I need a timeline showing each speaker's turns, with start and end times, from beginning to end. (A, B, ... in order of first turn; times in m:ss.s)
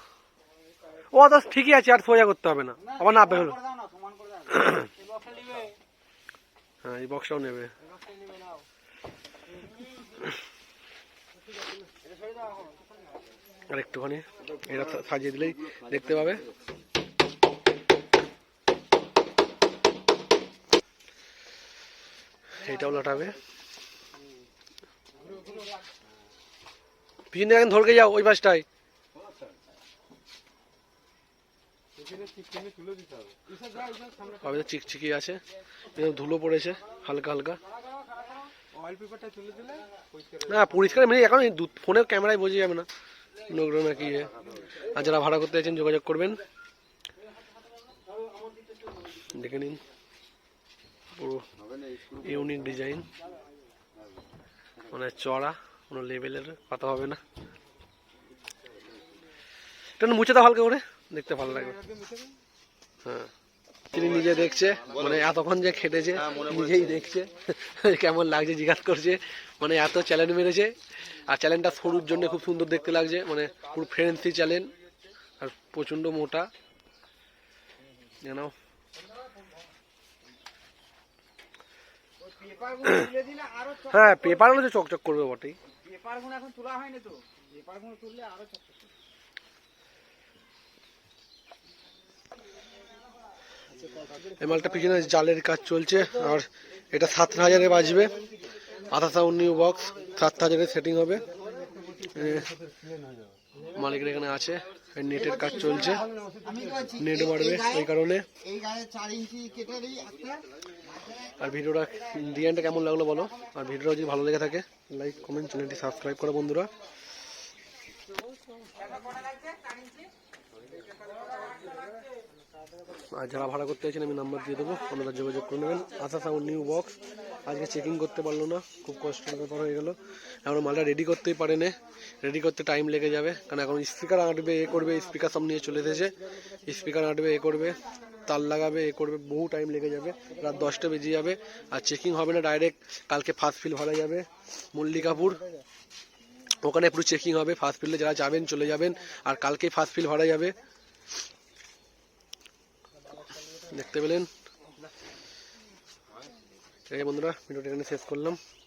0:01.1-0:03.6 A
0:03.8-0:04.4 B
0:04.5-0:04.9 A
0:05.0-0:05.7 C
0:06.8-0:07.7 A
0:08.1-0:08.6 C
0:13.7-0:16.4 A
0:22.5-0:23.4 A
0:27.3-0:28.6 A
0:32.0-0:34.3 C
0:32.6-0:33.0 B
0:34.4-0:37.6 A
0:38.7-0:39.9 C
0:40.4-0:42.9 A
0:43.5-0:46.4 A
0:49.1-0:49.8 A
0:51.1-0:51.5 A
0:51.8-0:52.2 B
0:52.1-0:53.1 A
0:54.9-0:57.2 A
1:00.0-1:01.8 A
1:03.0-1:03.3 A
1:03.9-1:14.7 A
1:15.4-1:16.5 A
1:18.2-1:18.5 A
1:22.8-1:23.1 A
1:23.8-1:25.6 A
1:25.9-1:28.6 B
1:34.4-1:38.2 A
1:38.9-1:41.2 A
1:42.0-1:42.6 A
1:43.6-1:46.1 A
1:46.5-1:46.8 B
1:46.8-1:48.3 A
1:48.6-1:50.4 B
1:51.4-1:56.7 A
2:03.1-2:25.4 A
2:26.6-2:30.6 A
2:33.7-2:34.3 A
2:36.9-2:38.4 A